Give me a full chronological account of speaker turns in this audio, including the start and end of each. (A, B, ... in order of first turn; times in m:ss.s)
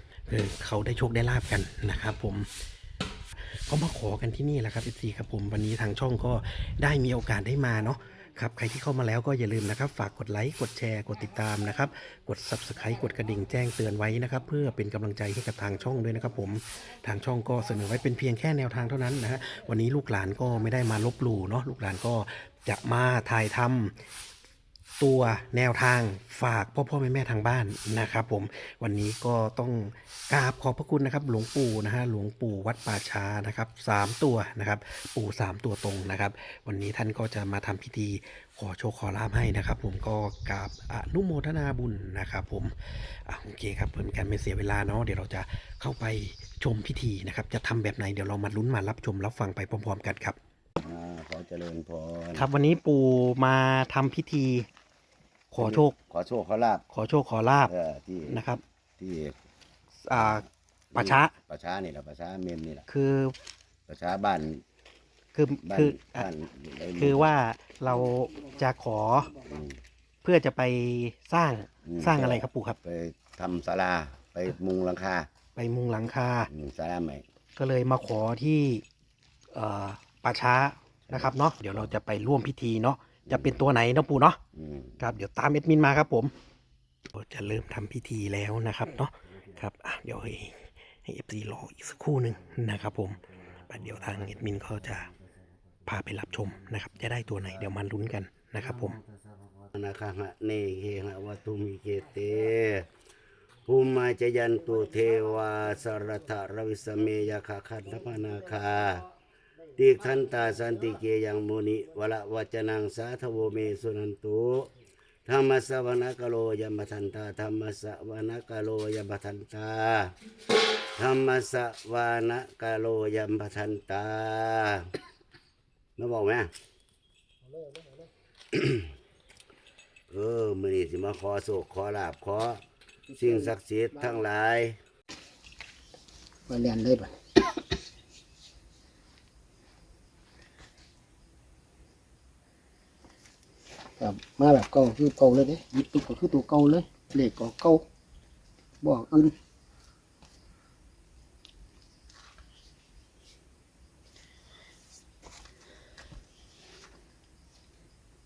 0:00.3-0:02.5 A
0:03.7-0:23.9 A
0:25.0-0:50.4 A
0:50.8-0:52.5 B
0:52.4-0:54.7 A
0:55.5-0:56.0 A
0:55.6-0:56.8 B
0:56.9-0:57.7 A
0:57.7-0:58.4 B
0:58.3-0:58.6 A
0:59.0-0:59.4 B
1:00.0-1:01.4 A
1:00.1-1:02.9 B
1:02.9-1:03.4 A
1:03.9-1:04.6 B
1:05.3-1:06.3 A
1:05.6-1:07.3 B
1:07.0-1:09.3 A
1:09.5-1:09.7 B
1:10.2-1:12.8 A
1:11.8-1:15.3 B
1:15.6-1:16.5 A
1:16.5-1:17.2 B
1:17.6-1:18.8 A
1:19.5-1:24.4 A
1:21.1-1:21.9 B
1:23.3-1:23.6 B
1:24.6-1:25.0 B
1:25.0-1:26.3 A
1:27.1-1:35.1 A
1:35.9-1:39.0 A
1:39.7-1:42.9 B
1:43.7-1:49.1 B
1:49.8-1:54.7 B
1:55.2-2:00.2 B
2:01.0-2:04.9 B
2:06.0-2:06.5 B
2:08.5-2:08.8 B
2:10.1-2:12.6 B
2:13.1-2:14.2 C
2:13.2-2:14.8 B
2:16.5-2:17.1 C
2:24.0-2:27.8 C
2:28.8-2:29.4 C